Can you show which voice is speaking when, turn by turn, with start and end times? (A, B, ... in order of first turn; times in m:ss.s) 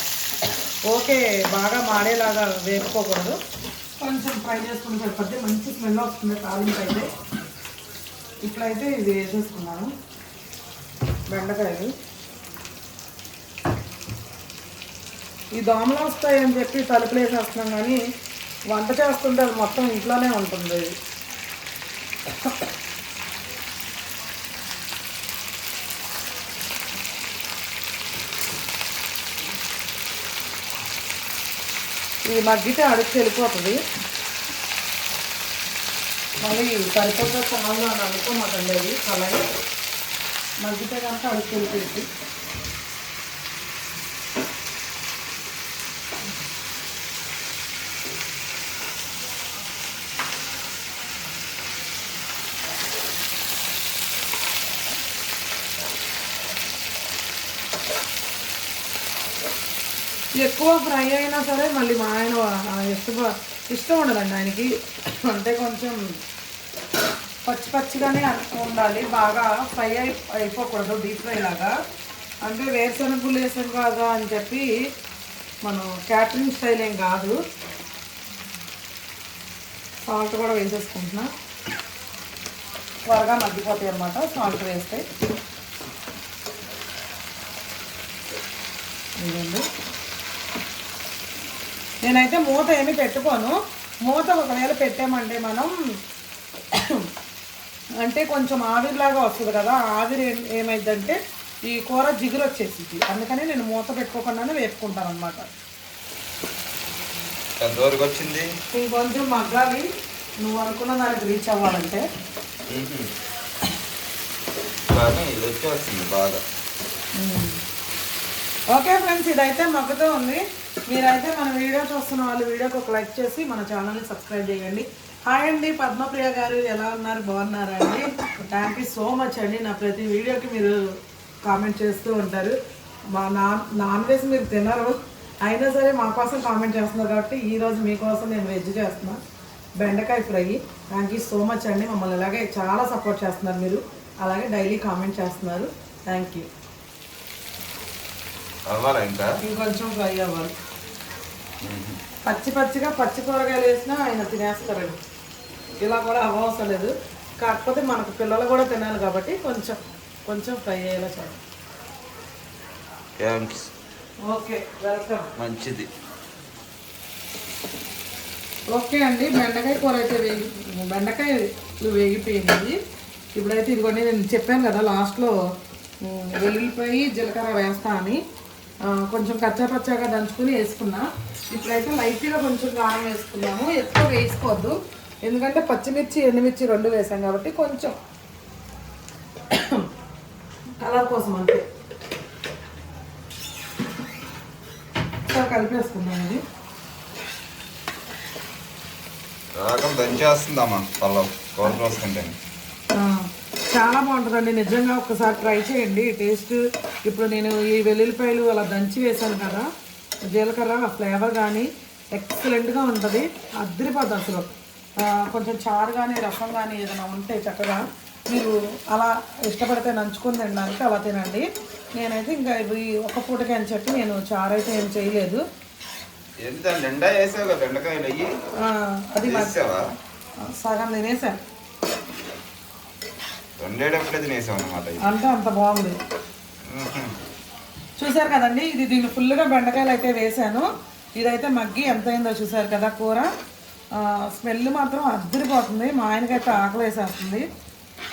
0:00.8-0:03.4 A
0:04.0-0:07.1 A
0:08.4-0:09.9 A
0:11.3-0:11.9 A
0:15.5-0:18.0 A
0:18.7-0:20.9 A
0:32.2-0:33.8 A
0:36.4-0:39.4 A
0:40.6-0:42.1 A
1:00.4-1:06.2 A
1:07.4-1:11.7 A
1:12.4-1:14.7 A
1:15.6-1:17.4 A
1:20.0-1:21.3 A
1:23.1-1:25.0 A
1:29.2-1:29.6 A
1:32.0-1:35.7 A
1:36.7-1:37.1 A
1:38.0-1:45.5 A
1:47.6-1:48.5 B
1:48.7-1:49.9 A
1:50.4-1:52.0 A
1:52.7-1:53.1 B
1:54.9-1:56.4 B
1:57.2-1:57.6 A
1:58.7-2:10.8 A
2:11.4-2:12.5 A
2:13.1-2:19.2 A
2:19.8-2:26.5 A
2:28.7-2:29.4 B
2:29.4-2:30.5 A
2:31.6-2:32.0 B
2:32.2-2:35.0 A
2:35.8-2:41.4 A
2:43.2-2:43.7 B
2:44.2-2:45.3 A
2:45.4-2:45.9 B
2:48.7-2:52.8 A
2:53.3-2:55.3 A
2:56.0-2:58.2 A
2:58.8-3:07.9 A
3:09.5-3:09.9 A
3:10.8-3:11.6 A
3:15.3-3:16.4 A
3:19.6-3:22.4 B
3:22.9-3:29.7 A
3:30.2-3:45.4 A
3:46.4-3:48.3 B
3:48.6-3:49.5 A
3:49.2-3:49.8 B
3:50.4-3:51.4 A
3:53.6-3:55.1 B
3:55.0-3:56.0 A
3:56.6-3:57.1 B
3:58.0-4:03.3 A
4:03.9-4:07.4 A